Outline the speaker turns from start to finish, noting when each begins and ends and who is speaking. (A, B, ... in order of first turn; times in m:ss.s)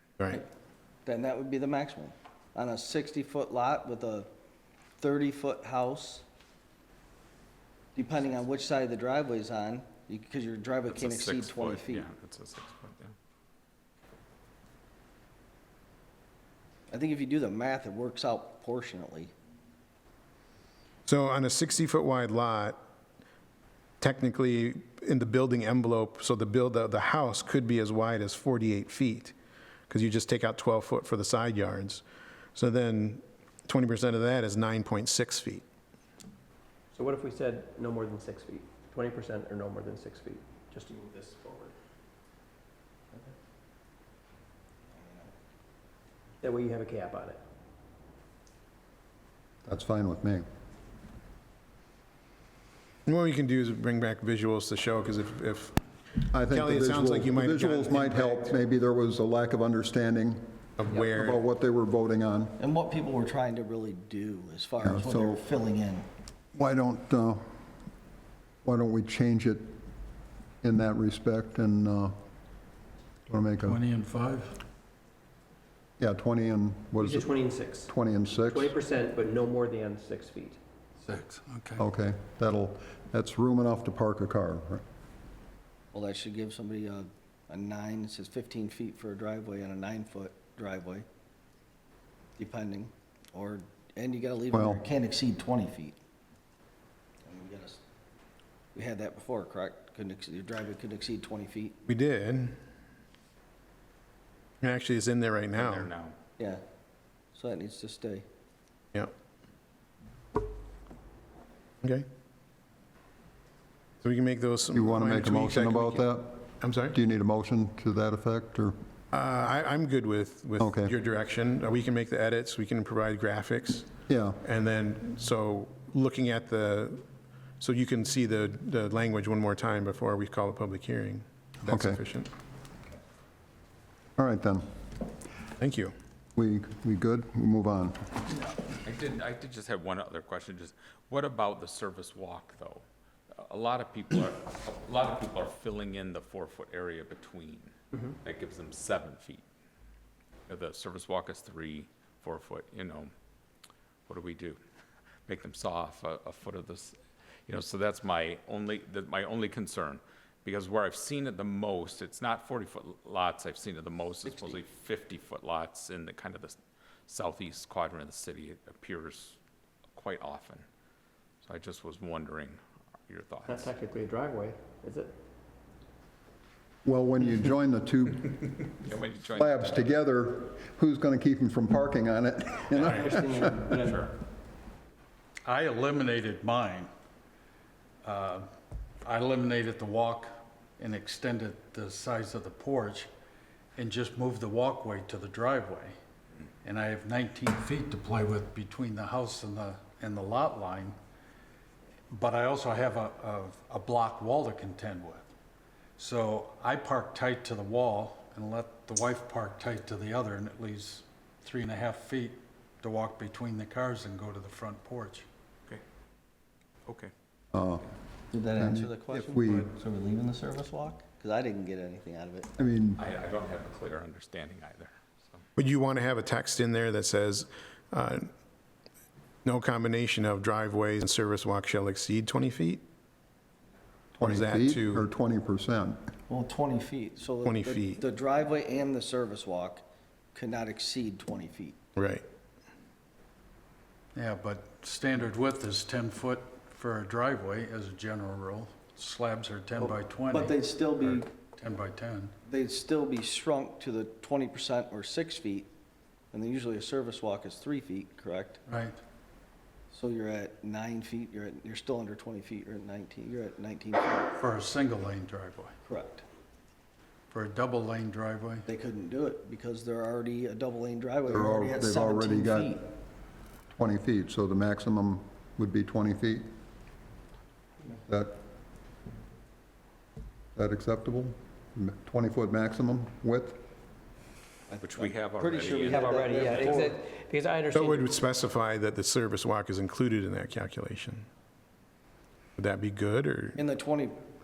0:01.1-0:04.3 A
0:05.0-0:06.2 A
0:08.0-0:12.1 A
0:10.9-0:13.2 B
0:16.9-0:19.3 A
0:21.1-0:22.8 C
0:24.0-0:29.4 C
0:29.9-0:32.0 C
0:32.6-0:35.6 C
0:36.9-0:41.8 D
0:45.0-0:45.3 A
0:46.4-0:47.4 D
0:49.6-0:50.5 E
0:53.1-0:58.5 C
0:56.3-1:02.6 E
1:00.8-1:01.4 C
1:02.6-1:06.1 A
1:04.8-1:05.4 E
1:06.5-1:07.4 E
1:08.6-1:09.8 E
1:10.6-1:12.2 E
1:13.3-1:13.8 E
1:13.7-1:14.5 F
1:16.0-1:17.3 E
1:17.0-1:20.6 D
1:17.9-1:18.8 E
1:21.0-1:21.8 F
1:21.8-1:24.8 E
1:25.9-1:31.0 A
1:32.4-1:36.0 A
1:34.5-1:34.8 E
1:37.3-1:37.8 A
1:38.8-1:41.8 A
1:41.9-1:42.6 C
1:44.6-1:45.9 C
1:45.6-1:46.2 B
1:47.3-1:48.2 A
1:54.0-1:56.1 C
1:54.7-1:58.8 E
1:56.6-1:57.0 C
1:59.1-2:03.9 C
2:00.6-2:00.9 E
2:04.1-2:04.4 E
2:04.4-2:07.0 C
2:07.6-2:12.3 C
2:11.7-2:12.0 E
2:14.2-2:14.6 E
2:15.6-2:15.9 C
2:16.4-2:18.1 E
2:18.8-2:29.4 B
2:30.5-2:33.1 B
2:34.1-2:34.6 B
2:35.3-2:46.6 B
2:47.1-2:49.4 B
2:50.0-2:50.6 B
2:51.4-2:53.7 B
2:53.5-2:55.1 D
2:56.8-2:58.7 E
2:58.8-2:59.9 B
2:59.3-3:03.4 E
3:02.8-3:04.1 D
3:03.8-3:04.2 B
3:05.5-3:06.9 F
3:08.0-3:08.4 F
3:09.1-3:13.1 F
3:13.8-3:15.9 F
3:16.6-3:21.0 F
3:22.1-3:25.3 F
3:26.0-3:35.3 F
3:36.9-3:37.1 B
3:37.5-3:37.9 E
3:38.3-3:42.6 A
3:38.6-3:39.7 E
3:42.6-3:43.0 E
3:43.0-3:45.4 B
3:45.6-3:48.3 C
3:49.4-3:52.8 C
3:54.2-3:56.0 E
3:54.2-3:55.1 C
3:56.3-3:59.8 A
3:57.4-3:58.0 C
4:00.4-4:01.8 A
4:02.0-4:02.2 C
4:04.2-4:12.3 F
4:09.8-4:11.3 A
4:12.4-4:15.7 A
4:16.3-4:18.6 A
4:18.7-4:19.0 F
4:19.9-4:24.4 A
4:24.4-4:25.7 F
4:25.8-4:26.2 A
4:27.3-4:28.6 F
4:28.7-4:32.8 A
4:31.3-4:32.8 E
4:33.7-4:36.5 E
4:38.1-4:38.4 E
4:40.6-4:43.6 E
4:44.7-4:47.0 A
4:44.8-4:46.8 B
4:45.8-4:48.2 D
4:47.7-4:51.3 C
4:52.6-4:53.6 C
4:53.6-4:54.2 A